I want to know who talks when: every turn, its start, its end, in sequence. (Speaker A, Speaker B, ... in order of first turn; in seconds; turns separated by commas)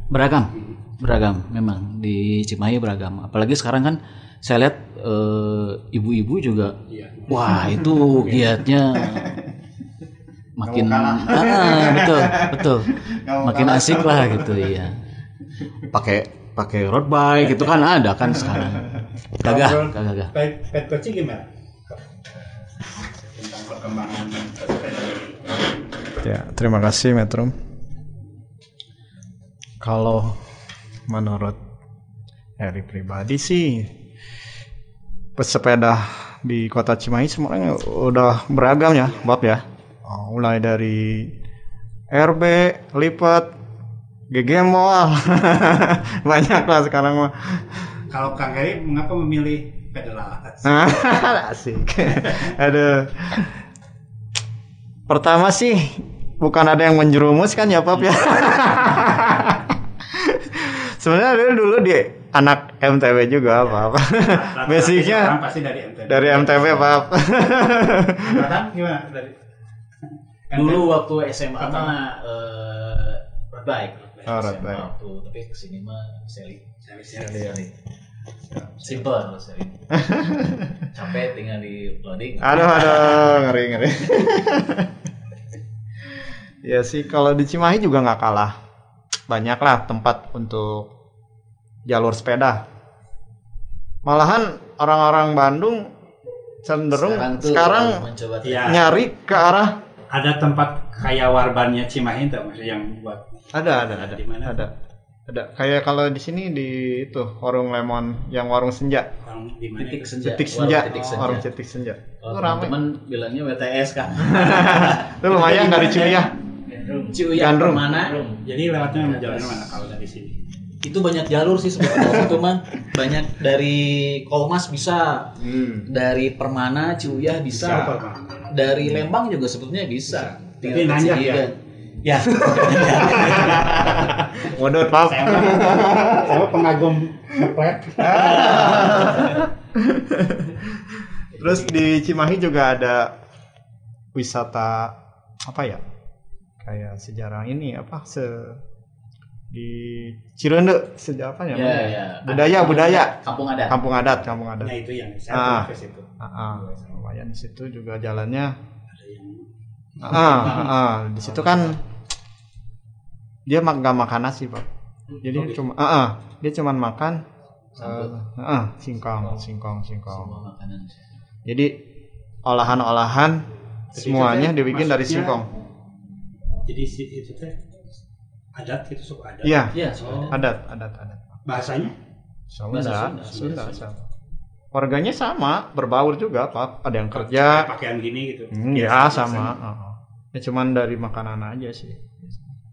Speaker A: 0.1-6.8, Speaker B: 0.5-0.8, Speaker B: 6.9-8.5, Speaker A: 7.3-9.4, Speaker C: 9.1-9.4, Speaker A: 10.6-14.9, Speaker C: 10.6-14.7, Speaker A: 15.9-20.3, Speaker C: 18.4-19.0, Speaker B: 19.4-22.1, Speaker B: 22.9-25.6, Speaker C: 26.2-27.5, Speaker C: 29.8-30.4, Speaker C: 31.1-31.6, Speaker C: 32.6-33.9, Speaker C: 35.4-41.3, Speaker C: 42.1-43.5, Speaker C: 44.3-47.8, Speaker B: 48.1-51.0, Speaker C: 50.6-53.5, Speaker B: 52.1-52.5, Speaker C: 55.1-65.4, Speaker B: 58.2-59.5, Speaker B: 63.7-67.0, Speaker C: 66.1-68.4, Speaker B: 68.2-69.3, Speaker B: 70.5-70.9, Speaker A: 70.5-77.7, Speaker B: 71.6-72.0, Speaker B: 74.2-74.5, Speaker C: 74.2-74.9, Speaker B: 76.8-77.6, Speaker C: 77.2-77.6, Speaker C: 78.5-79.0, Speaker A: 78.8-80.0, Speaker C: 79.9-80.7, Speaker A: 80.8-83.3, Speaker C: 82.4-84.9, Speaker C: 86.6-88.5, Speaker C: 89.3-90.9, Speaker C: 91.9-92.6, Speaker C: 94.0-95.9, Speaker C: 96.6-98.0, Speaker A: 96.9-98.9, Speaker B: 98.4-98.9, Speaker C: 98.6-99.7, Speaker B: 100.1-104.7, Speaker C: 103.5-104.7, Speaker C: 105.3-109.1, Speaker B: 109.2-111.4, Speaker A: 109.8-111.5, Speaker C: 110.2-112.8, Speaker A: 112.2-116.3, Speaker C: 114.2-116.3, Speaker B: 116.7-117.1, Speaker A: 117.0-119.8, Speaker C: 117.3-117.9, Speaker B: 118.1-120.4, Speaker A: 120.8-128.0, Speaker B: 127.5-128.6, Speaker A: 128.5-134.1, Speaker B: 130.5-131.5, Speaker B: 132.7-134.3, Speaker C: 134.4-136.5, Speaker B: 134.9-139.5, Speaker C: 138.0-143.1, Speaker C: 144.1-145.8, Speaker C: 146.6-148.6, Speaker C: 149.5-153.1, Speaker A: 151.5-153.8, Speaker C: 153.7-154.8, Speaker B: 154.6-156.1, Speaker C: 155.3-158.6, Speaker B: 158.9-159.4, Speaker B: 160.0-160.7, Speaker C: 160.0-161.8, Speaker A: 160.1-160.7, Speaker A: 161.2-161.6, Speaker C: 163.5-164.7, Speaker C: 165.2-167.2, Speaker C: 167.8-170.4, Speaker A: 167.8-168.2, Speaker A: 170.1-170.9, Speaker C: 171.4-171.8, Speaker C: 172.4-175.5, Speaker B: 173.9-175.4, Speaker B: 176.7-177.6, Speaker B: 178.5-180.3, Speaker C: 179.4-181.4, Speaker A: 179.7-180.4, Speaker B: 181.4-181.9, Speaker C: 182.5-184.0, Speaker A: 182.7-183.7, Speaker B: 183.3-183.8, Speaker C: 184.7-187.7, Speaker B: 187.1-189.5, Speaker C: 188.5-192.5